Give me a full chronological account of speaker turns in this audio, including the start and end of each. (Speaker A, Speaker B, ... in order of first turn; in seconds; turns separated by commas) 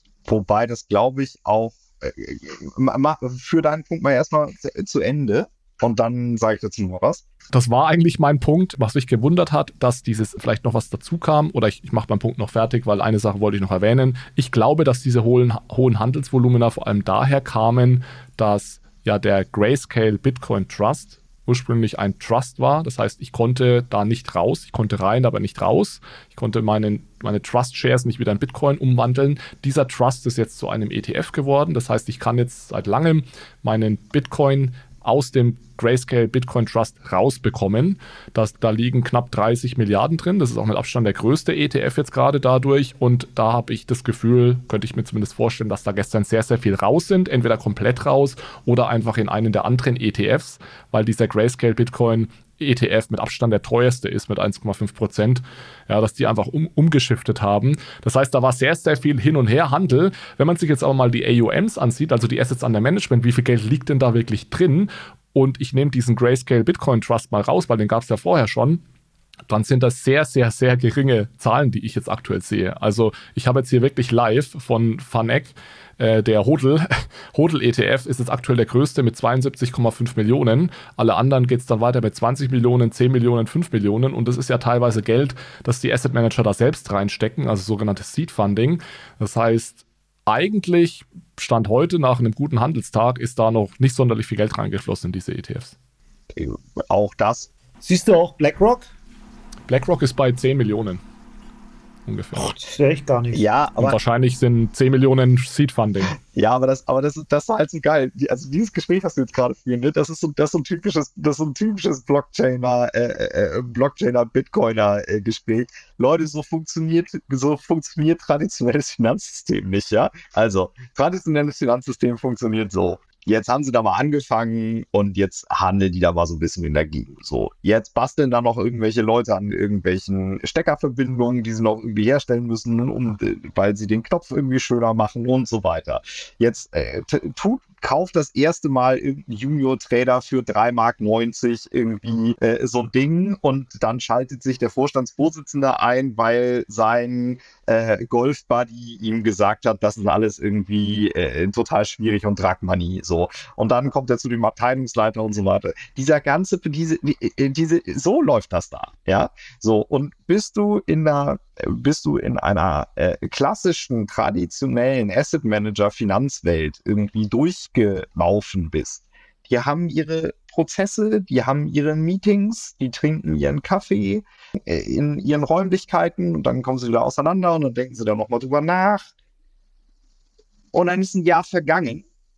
Speaker A: 0.3-7.2, Speaker B: 7.5-68.8, Speaker B: 69.5-95.7, Speaker A: 96.3-97.5, Speaker C: 97.8-98.9, Speaker B: 99.7-101.0, Speaker B: 102.1-102.5, Speaker C: 102.3-103.4, Speaker A: 103.3-104.0, Speaker B: 103.8-106.1, Speaker A: 106.1-179.1, Speaker A: 180.7-182.1